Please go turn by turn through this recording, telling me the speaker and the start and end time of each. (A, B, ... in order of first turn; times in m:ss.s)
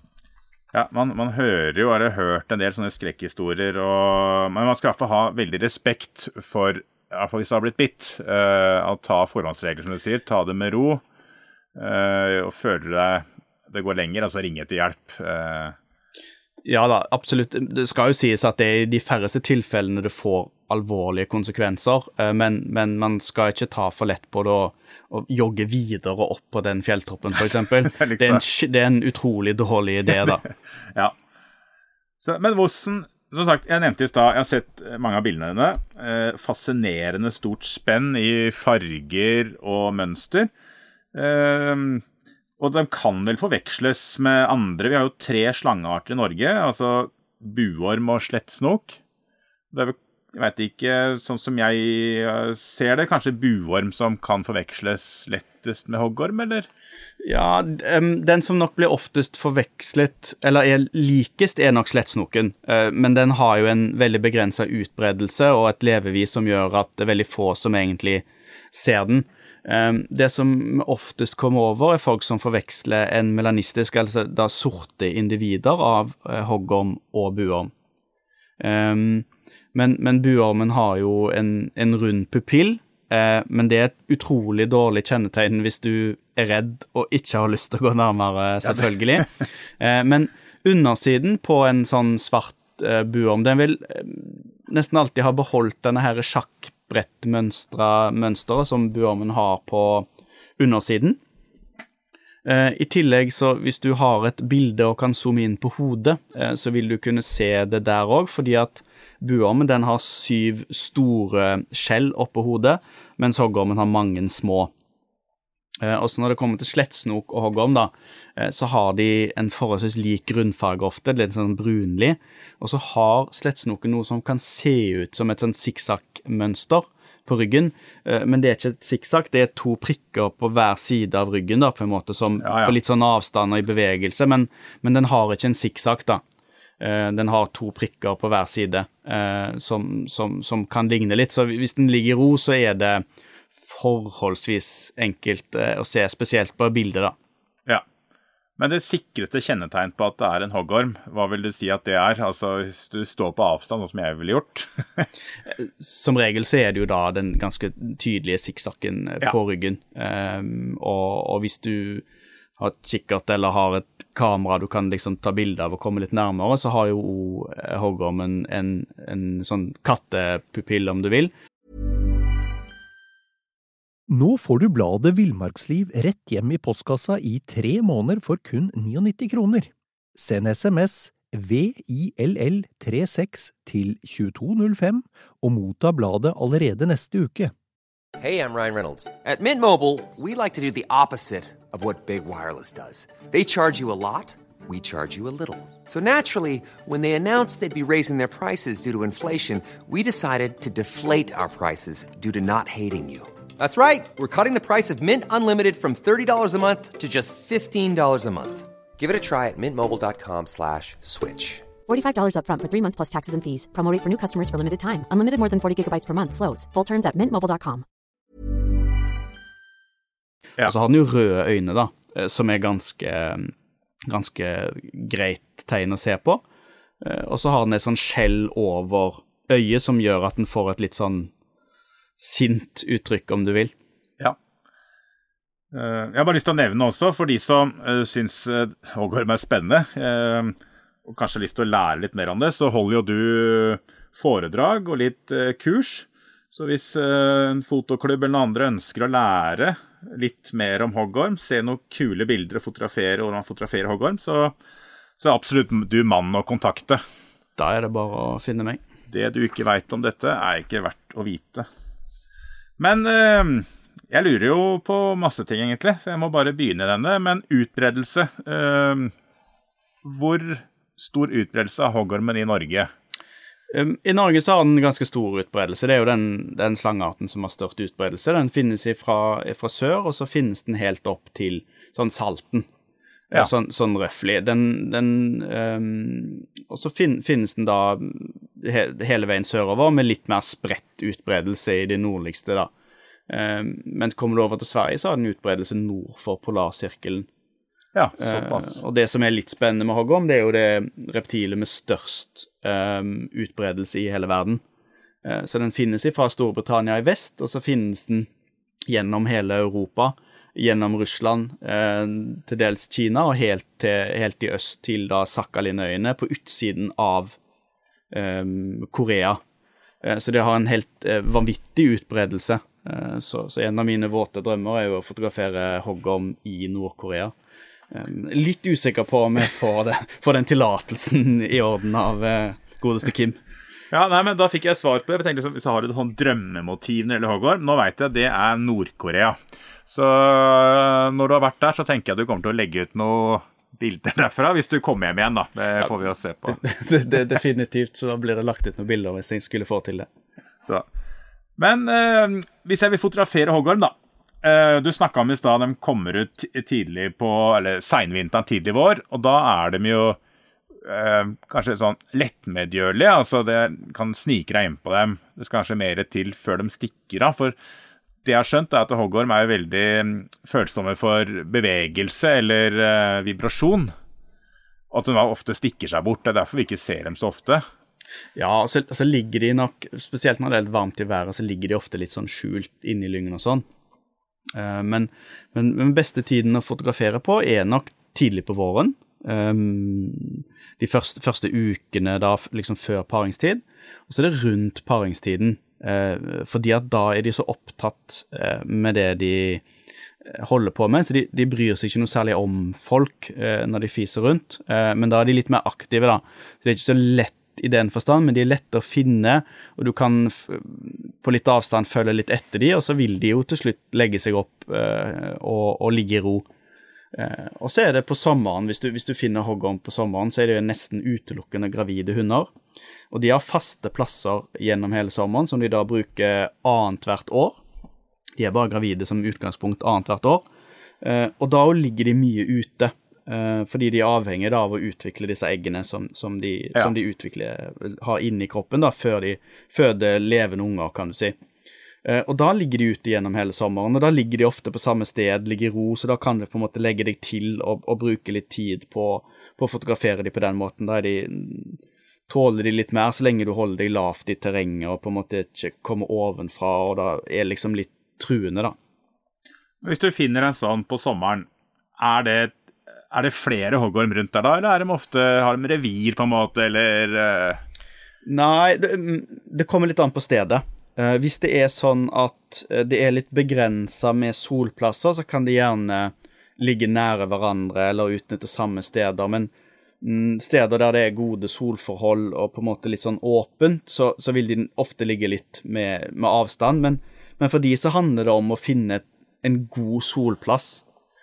0:00.7-0:11.0 A
0:11.8-0:15.7 A
0:16.6-0:30.4 B
0:27.8-0:28.4 A
0:32.2-0:40.5 A
0:41.1-0:42.0 A
0:42.6-0:49.0 A
0:49.7-0:56.7 A
0:57.2-1:17.7 B
1:18.6-1:40.1 B
1:40.6-1:41.2 B
1:42.4-1:54.7 B
1:55.8-2:16.2 B
2:12.4-2:12.7 A
2:16.8-2:27.1 B
2:28.6-2:35.0 A
2:35.6-2:42.0 B
2:42.6-2:51.3 B
2:54.1-3:07.5 C
3:08.2-3:31.7 D
3:31.9-3:37.8 E
3:40.6-3:43.5 B
3:44.1-3:46.4 B
3:47.0-3:51.3 B
3:52.2-3:53.7 B
3:55.7-4:14.5 A
4:15.2-4:17.0 A
4:17.6-4:18.8 B
4:19.1-4:21.6 A
4:22.8-4:29.1 A
4:30.0-4:32.9 A
4:33.7-4:42.7 B
4:43.3-4:52.7 B
4:53.3-4:57.3 B
4:57.9-4:58.8 A
4:58.2-5:04.6 B
5:05.2-5:08.3 B
5:08.9-5:17.4 B
5:18.1-5:19.4 B
5:20.0-5:27.3 B
5:27.9-5:33.4 B
5:33.9-5:46.6 A
5:46.5-5:50.1 B
5:51.6-6:00.2 A
6:00.8-6:07.6 A
6:08.2-6:13.9 A
6:14.9-6:17.6 A
6:18.4-6:23.6 B
6:24.5-6:39.6 B
6:40.2-6:56.4 B
6:57.1-7:02.5 B
7:03.1-7:07.6 B
7:08.4-7:10.5 B
7:11.0-7:21.4 B
7:22.0-7:38.8 B
7:39.8-7:41.5 A
7:42.0-7:42.5 A
7:43.1-7:47.6 A
7:48.2-7:59.5 B
8:00.0-8:10.8 B